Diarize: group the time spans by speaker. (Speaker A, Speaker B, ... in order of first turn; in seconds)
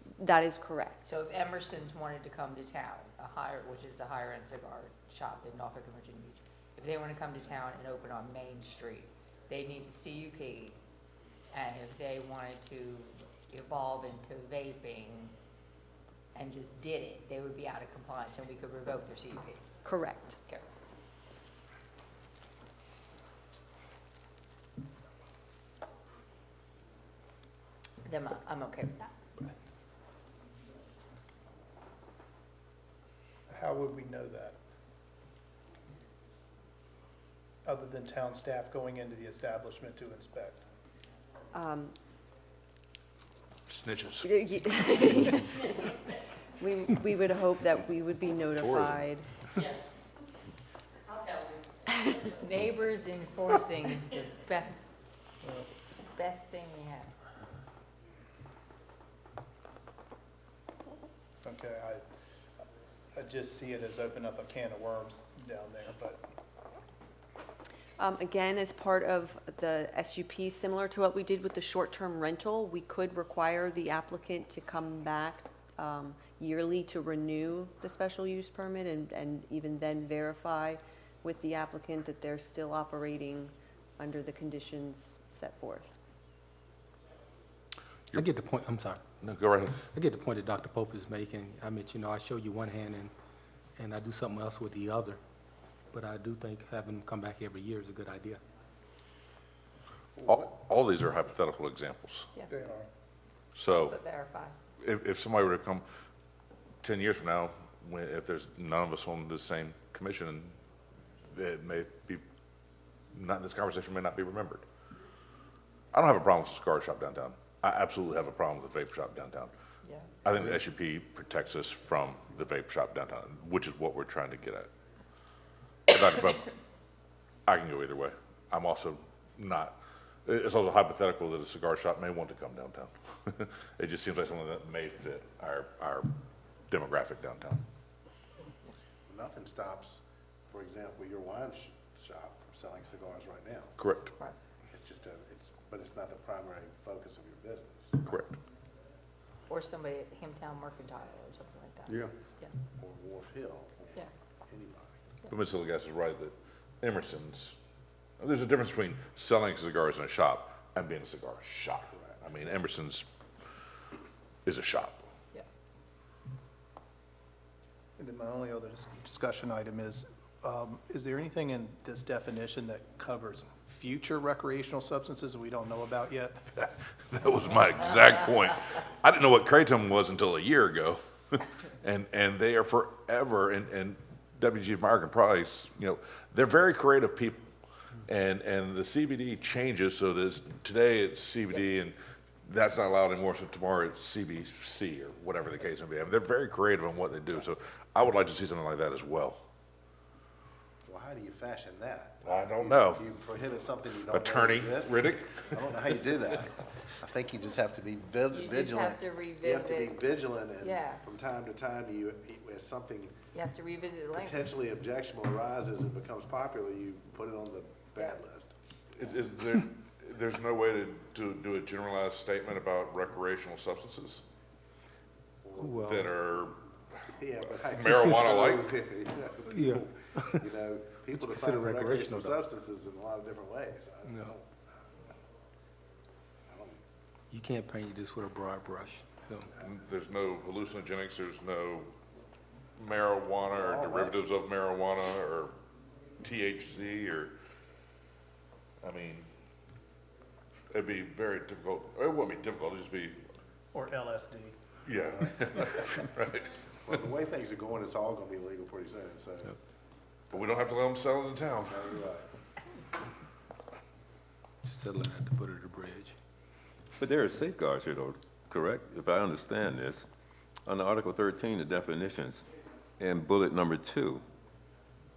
Speaker A: 0.2-1.0, 19.8-20.4, 41.5-41.9, 44.2-46.0, 46.6-49.2, 68.0-85.9
Speaker B: 1.0-10.8, 11.5-15.3, 16.3-19.6, 28.0-29.1, 52.3-55.0, 56.1-57.1, 103.7-104.5, 119.8-120.1, 149.5-152.5, 208.3-211.0, 213.3-214.4
Speaker C: 33.5-34.5, 37.6-40.6, 61.4-62.0, 63.1-66.2, 102.5-102.9, 168.0-176.4, 253.7-254.5
Speaker D: 43.7-44.3, 48.6-49.0, 89.2-89.8, 100.2-102.3, 103.5-104.0, 104.8-105.8, 106.8-110.5, 111.3-112.2, 113.1-114.6, 115.9-119.5, 120.2-124.7, 125.9-126.5, 127.5-136.1, 136.7-137.6, 143.8-144.1, 148.0-148.3, 155.3-157.6, 158.2-163.0, 164.4-165.1, 176.6-187.4, 188.1-199.4, 202.2-203.0, 204.1-205.7, 218.9-224.2, 225.8-228.6, 239.6-241.9, 242.8-245.5, 246.2-247.3, 248.8-249.3, 250.7-253.2, 254.8-256.6, 260.3-261.9
Speaker E: 88.1-89.0, 89.9-93.1, 93.8-95.2, 95.9-98.4, 225.6-226.1, 227.8-228.4, 229.4-230.4, 231.1-232.4, 234.1-234.3, 237.3-239.5, 264.6-266.1
Speaker F: 139.1-143.8, 144.7-148.0, 152.8-154.9, 200.8-213.2, 214.2-218.5, 225.4-225.8, 227.1-234.9, 236.5-236.8, 243.5-244.3, 256.9-259.5, 261.7-262.3
Speaker G: 267.0-270.1, 270.6-274.2